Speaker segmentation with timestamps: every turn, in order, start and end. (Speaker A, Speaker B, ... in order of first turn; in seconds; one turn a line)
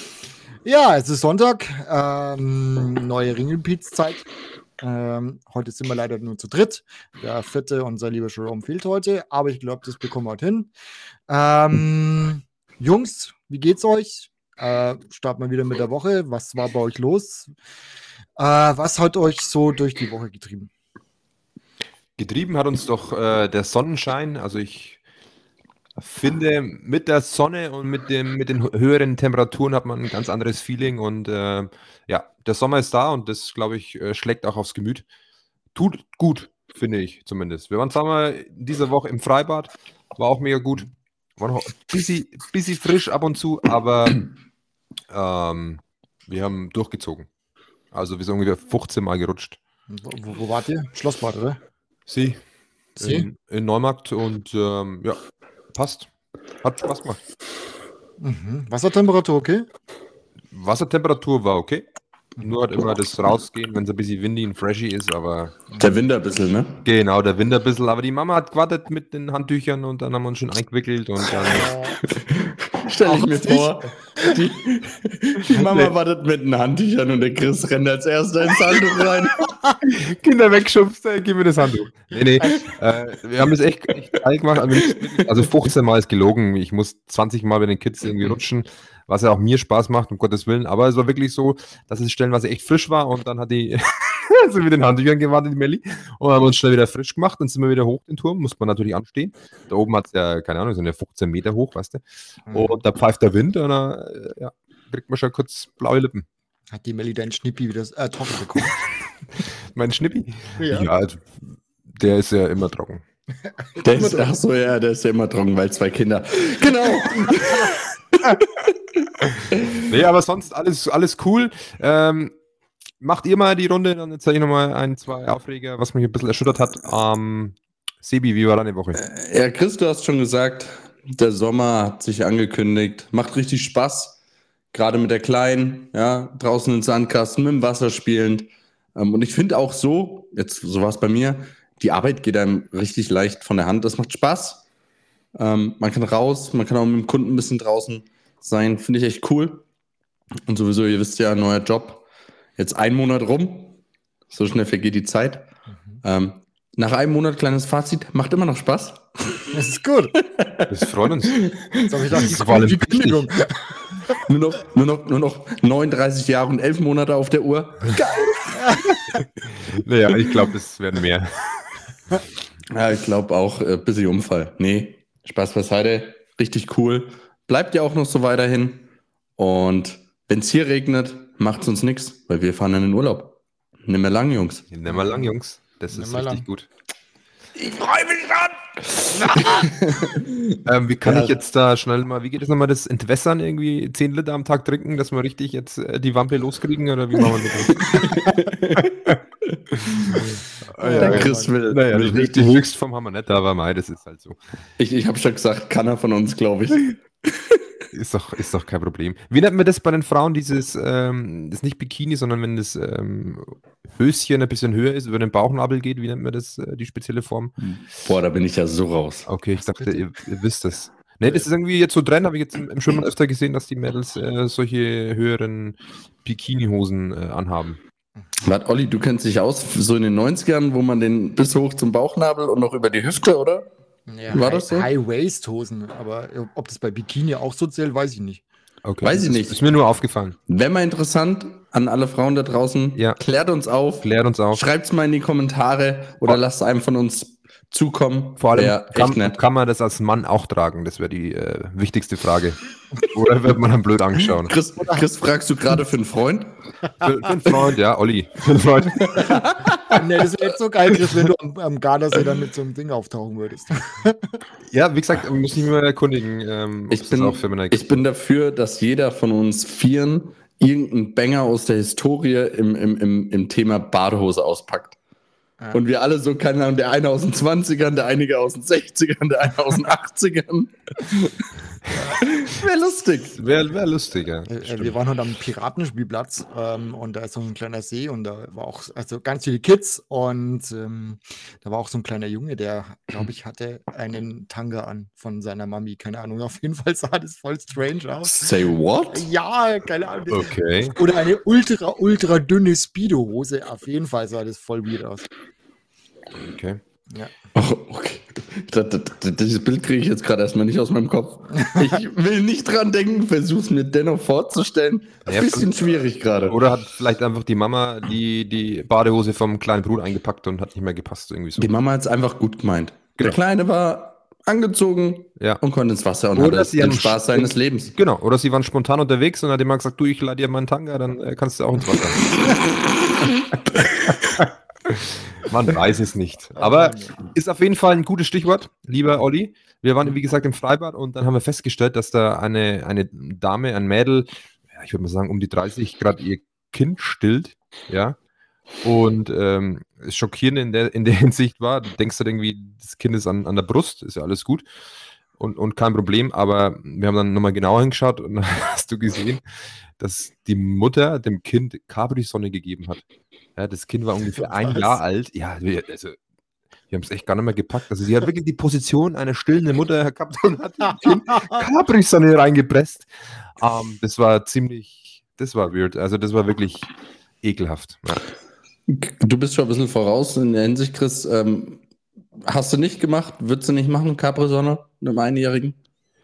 Speaker A: 0.6-4.3
Speaker A: 4.8-10.7
Speaker A: 11.3-17.5
Speaker A: 18.4-20.7
Speaker B: 22.2-25.0
Speaker B: 26.0-35.0
Speaker B: 35.7-44.3
Speaker B: 45.1-47.3
Speaker B: 47.9-49.6
Speaker A: 49.9-51.6
Speaker B: 52.1-52.4
Speaker B: 53.0-55.2
Speaker A: 53.0-53.2
Speaker B: 55.7-56.1
Speaker B: 56.6-57.2
Speaker A: 58.2-59.6
Speaker B: 60.5-61.8
Speaker B: 62.4-65.7
Speaker A: 65.7-66.0
Speaker C: 65.8-66.8
Speaker B: 66.8-71.7
Speaker A: 71.4-72.0
Speaker C: 72.0-79.5
Speaker A: 73.0-74.3
Speaker B: 79.9-106.2
Speaker A: 82.4-82.7
Speaker A: 102.5-102.8
Speaker A: 106.7-108.8
Speaker B: 109.7-113.0
Speaker A: 110.6-110.9
Speaker A: 113.7-114.3
Speaker C: 113.8-119.9
Speaker B: 119.3-122.3
Speaker B: 123.0-129.0
Speaker C: 128.9-134.2
Speaker C: 134.7-144.6
Speaker C: 145.3-149.6
Speaker C: 150.4-152.0
Speaker C: 152.6-153.8
Speaker C: 154.3-155.5
Speaker C: 156.0-159.5
Speaker A: 159.5-160.1
Speaker C: 160.2-162.1
Speaker B: 160.7-161.4
Speaker A: 161.8-163.8
Speaker B: 162.1-163.3
Speaker C: 164.1-168.5
Speaker A: 168.5-169.2
Speaker B: 169.6-171.3
Speaker C: 172.7-184.6
Speaker B: 184.7-186.7
Speaker A: 184.9-185.3
Speaker A: 185.9-186.4
Speaker C: 187.5-191.3
Speaker A: 189.2-189.7
Speaker B: 190.6-198.2
Speaker C: 197.8-199.6
Speaker A: 198.0-198.4
Speaker B: 198.8-199.2
Speaker B: 199.8-200.2
Speaker B: 200.8-204.4
Speaker A: 200.8-201.5
Speaker C: 200.9-202.6
Speaker C: 204.8-207.8
Speaker B: 207.9-217.5
Speaker C: 217.7-219.3
Speaker B: 219.3-227.8
Speaker C: 228.4-233.7
Speaker A: 234.1-238.4
Speaker C: 234.3-234.9
Speaker B: 238.8-240.4
Speaker C: 239.0-239.6
Speaker C: 240.5-249.4
Speaker B: 244.0-244.6
Speaker B: 248.4-254.5
Speaker C: 254.2-256.5
Speaker B: 257.0-259.4
Speaker C: 259.0-260.0
Speaker A: 259.9-264.4
Speaker B: 264.7-267.9
Speaker C: 266.9-275.0
Speaker C: 275.7-281.5
Speaker A: 281.9-282.2
Speaker C: 282.1-283.4
Speaker B: 283.4-284.9
Speaker A: 284.4-298.5
Speaker C: 298.2-299.3
Speaker A: 299.1-305.2
Speaker B: 300.3-300.9
Speaker B: 306.4-306.8
Speaker C: 307.5-316.6
Speaker B: 315.3-315.7
Speaker B: 316.5-321.7
Speaker C: 321.6-327.9
Speaker B: 326.3-332.3
Speaker C: 333.7-334.4
Speaker B: 334.9-348.2
Speaker A: 336.6-337.2
Speaker B: 348.8-354.6
Speaker B: 355.4-359.4
Speaker B: 360.0-363.0
Speaker B: 363.6-366.2
Speaker A: 364.4-365.0
Speaker B: 366.9-376.9
Speaker A: 371.0-371.6
Speaker B: 377.4-378.3
Speaker C: 378.9-381.8
Speaker C: 382.4-385.8